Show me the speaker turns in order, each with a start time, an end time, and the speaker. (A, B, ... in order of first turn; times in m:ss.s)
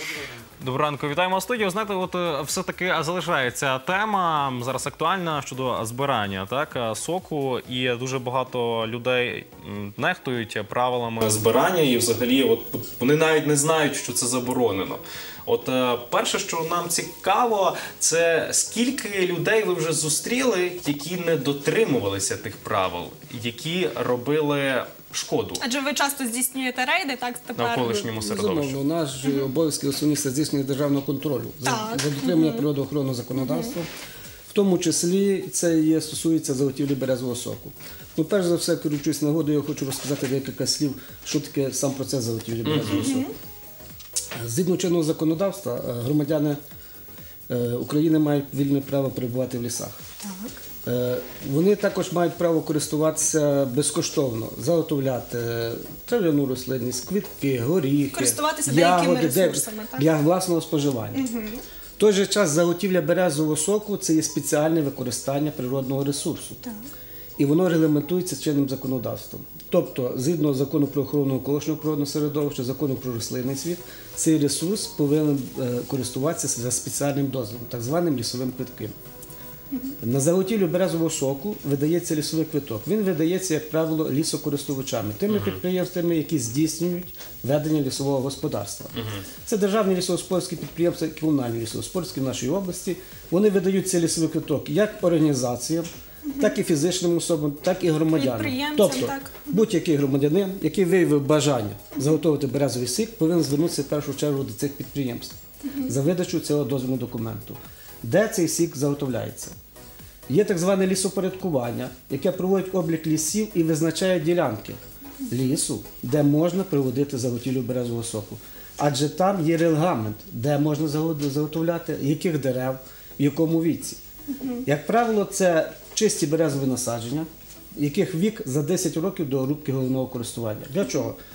0:00.6-0:25.6 A
0:25.6-0:28.0 B
0:27.6-0:28.8 A
0:27.8-0:33.9 C
0:31.6-0:32.7 B
0:33.4-0:33.7 B
0:34.5-0:43.3 C
0:42.6-0:43.2 A
0:42.9-0:43.3 B
0:44.4-0:46.6 C
0:47.5-0:50.0 C
0:50.2-0:50.6 B
0:50.8-1:01.2 C
0:58.1-1:00.1 B
1:01.1-1:01.6 B
1:02.0-1:06.6 C
1:07.4-1:19.0 C
1:20.0-1:35.9 C
1:25.3-1:25.6 A
1:36.3-1:36.5 B
1:36.4-1:45.3 C
1:38.1-1:39.5 B
1:45.8-1:49.6 C
1:50.3-2:04.0 C
2:04.4-2:04.6 B
2:04.6-2:11.2 C